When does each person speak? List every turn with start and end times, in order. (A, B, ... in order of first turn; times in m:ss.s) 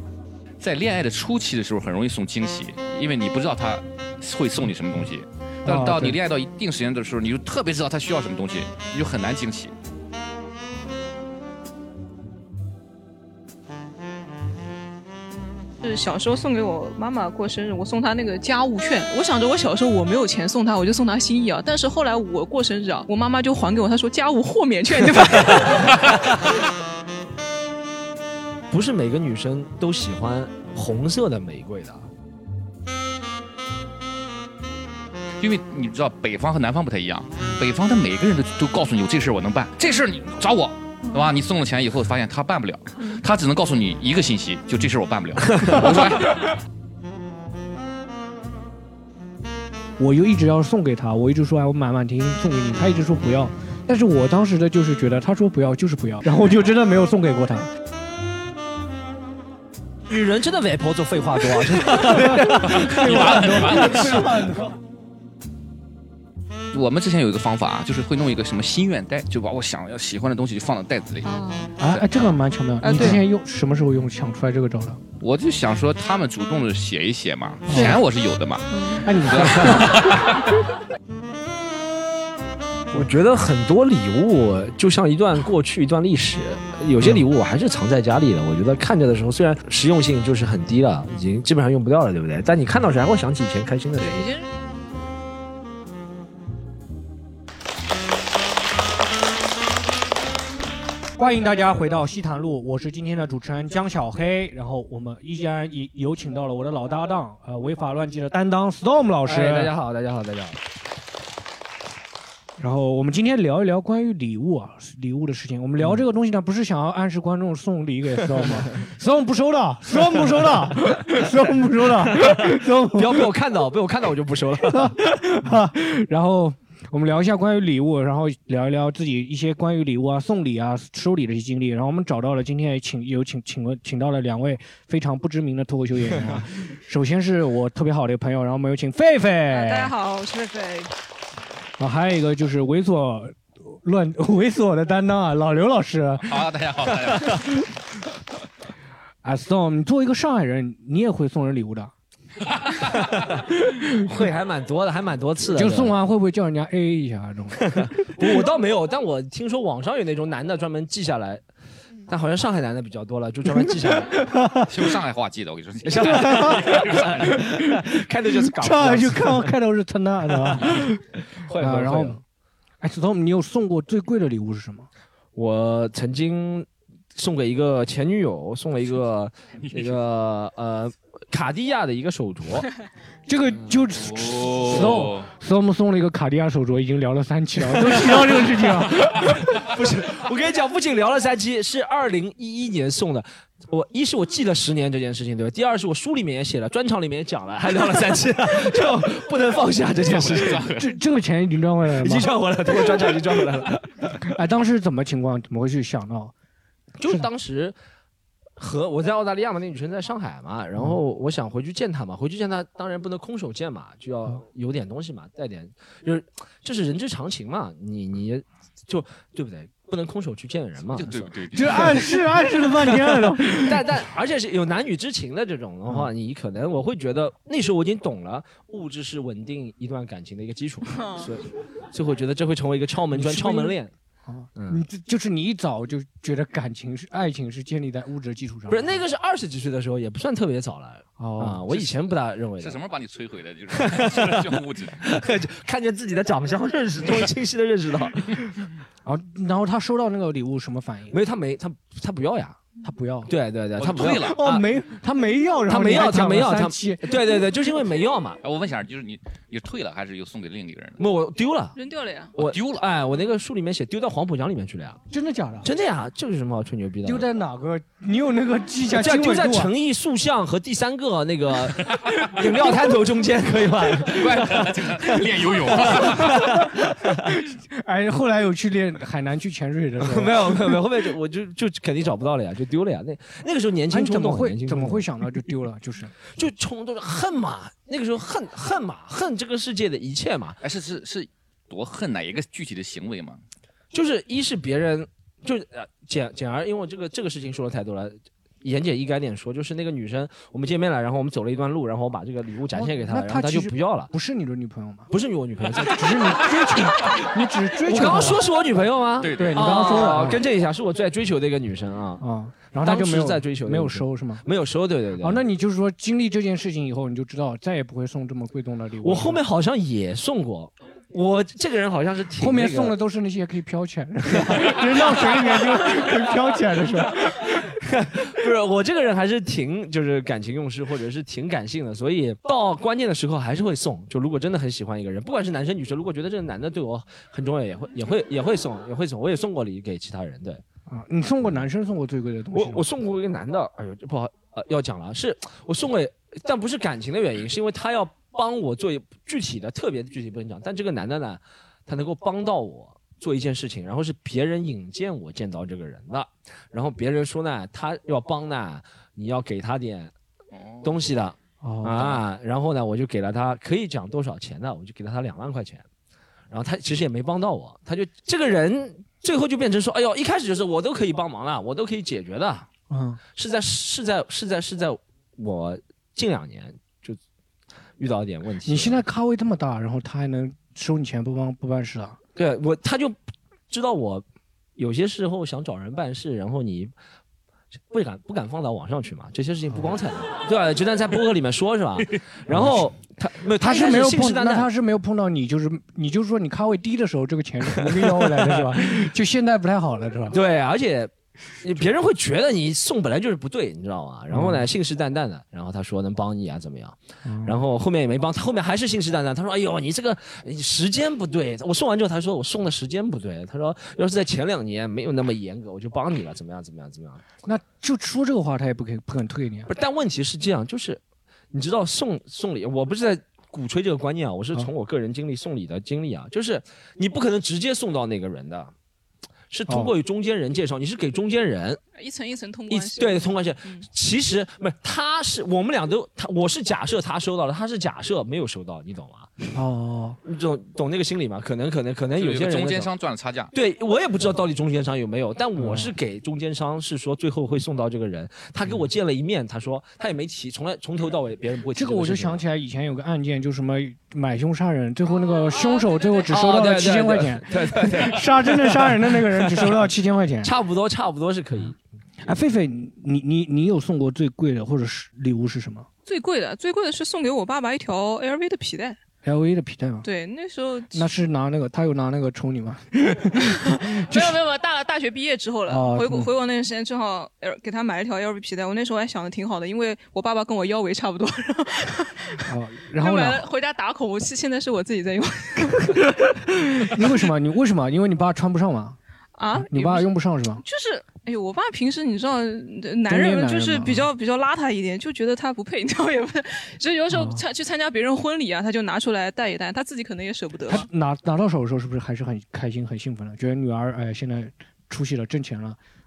0:00.6-0:09.7 A
0:05.6-0:06.2 B
0:15.8-0:26.1 C
0:28.7-0:32.0 D
0:35.4-0:46.5 A
0:50.0-0:57.7 B
1:00.1-1:04.0 D
1:01.8-1:04.8 B
1:02.7-1:04.4 A
1:06.7-1:11.3 A
1:11.2-1:11.6 C
1:11.8-1:15.0 B
1:12.8-1:13.2 C
1:15.2-1:20.4 A
1:17.7-1:18.0 B
1:19.0-1:20.3 B
1:22.9-1:34.3 D
1:27.0-1:27.2 B
1:34.0-1:34.5 C
1:41.2-1:49.7 B
1:49.2-1:50.6 D
1:52.6-2:03.3 B
2:02.0-2:05.0 D
2:04.7-2:19.9 B
2:19.5-2:20.9 C
2:21.8-2:26.4 B
2:26.2-2:27.5 A
2:29.2-2:31.9 B
2:32.9-2:33.4 D
2:33.6-2:34.2 B
2:34.0-2:36.0 D
2:35.5-2:37.9 B
2:37.6-2:41.4 D
2:42.1-2:44.1 D
2:43.6-2:44.7 B
2:44.6-2:47.5 A
2:45.8-2:49.5 D
2:46.2-2:46.5 B
2:48.6-2:51.0 B
2:51.4-2:52.2 D
2:51.6-2:52.2 B
2:52.8-2:54.9 B
2:55.3-3:02.7 D
3:03.3-3:09.4 B
3:04.0-3:05.3 A
3:09.0-3:09.4 A
3:09.6-3:20.6 D
3:20.0-3:20.9 A
3:20.6-3:22.3 B
3:22.0-3:24.0 D
3:24.2-3:26.3 B
3:27.0-3:27.8 D
3:28.6-3:41.8 D
3:40.9-3:42.2 A
3:41.5-3:43.9 B
3:43.4-3:53.9 D
3:50.9-3:51.2 C
3:53.1-3:59.0 B
3:54.6-3:54.8 D
3:58.7-4:02.8 D
4:01.2-4:01.6 B
4:02.6-4:05.1 A
4:03.8-4:04.4 D
4:05.0-4:08.4 D
4:09.0-4:11.2 B
4:11.1-4:12.6 D
4:12.8-4:13.3 B
4:13.3-4:14.6 D
4:13.8-4:14.6 A
4:14.1-4:17.4 B
4:15.7-4:18.4 D
4:18.4-4:21.0 A
4:21.0-4:21.8 D
4:21.8-4:22.3 C
4:22.4-4:25.0 D
4:22.4-4:22.8 A
4:25.1-4:25.7 B
4:25.6-4:27.2 D
4:27.0-4:29.7 B
4:28.9-4:34.7 D
4:34.0-4:36.6 A
4:35.9-4:37.3 D
4:36.0-4:36.6 B
4:37.2-4:40.8 B
4:40.0-4:45.1 D
4:43.9-4:46.1 B
4:46.3-4:50.6 D
4:50.6-4:53.4 A
4:53.9-5:04.1 D
5:02.7-5:05.1 B
5:05.1-5:06.4 D
5:05.7-5:08.4 B
5:07.8-5:12.2 D
5:09.2-5:09.8 A
5:09.3-5:10.4 B
5:12.2-5:14.4 B
5:12.8-5:15.4 D
5:15.2-5:19.4 B
5:19.0-5:22.9 D
5:22.4-5:27.7 B
5:27.8-5:40.6 D
5:40.9-5:42.8 B
5:42.5-6:00.1 D
6:00.5-6:00.9 A
6:00.8-6:05.8 D
6:01.6-6:02.2 B
6:06.5-6:12.7 D
6:12.9-6:13.2 B
6:13.3-6:17.2 D
6:18.0-6:19.0 D
6:18.6-6:22.2 B
6:22.4-6:23.2 D
6:23.7-6:24.2 D
6:24.8-6:26.9 D
6:27.9-6:34.7 D
6:32.5-6:32.8 B
6:33.6-6:40.4 B
6:37.8-6:38.7 D
6:40.3-6:41.1 D
6:41.6-6:57.2 D
6:44.3-6:44.6 B
6:47.2-6:47.6 B
6:57.4-6:59.7 B
6:59.7-7:01.0 D
7:01.5-7:08.7 D
7:09.5-7:11.8 D
7:09.7-7:09.9 B
7:12.0-7:13.8 C
7:12.7-7:19.4 D
7:19.5-7:20.2 B
7:20.2-7:22.9 D
7:22.2-7:23.5 A
7:23.5-7:32.4 D
7:25.6-7:25.9 B
7:31.7-7:40.5 B
7:35.2-7:36.3 C
7:36.3-7:39.8 D
7:40.4-7:41.8 D
7:42.2-7:45.9 B
7:46.0-7:49.0 C
7:49.2-7:50.0 B
7:50.0-7:51.0 C
7:50.9-7:54.4 B
7:53.7-8:06.1 C
7:55.7-7:56.3 B
8:02.4-8:03.5 B
8:06.4-8:09.0 B
8:06.8-8:07.1 C
8:09.4-8:20.8 C
8:09.5-8:10.6 B
8:13.0-8:14.1 B
8:17.1-8:17.4 B
8:20.7-8:25.8 B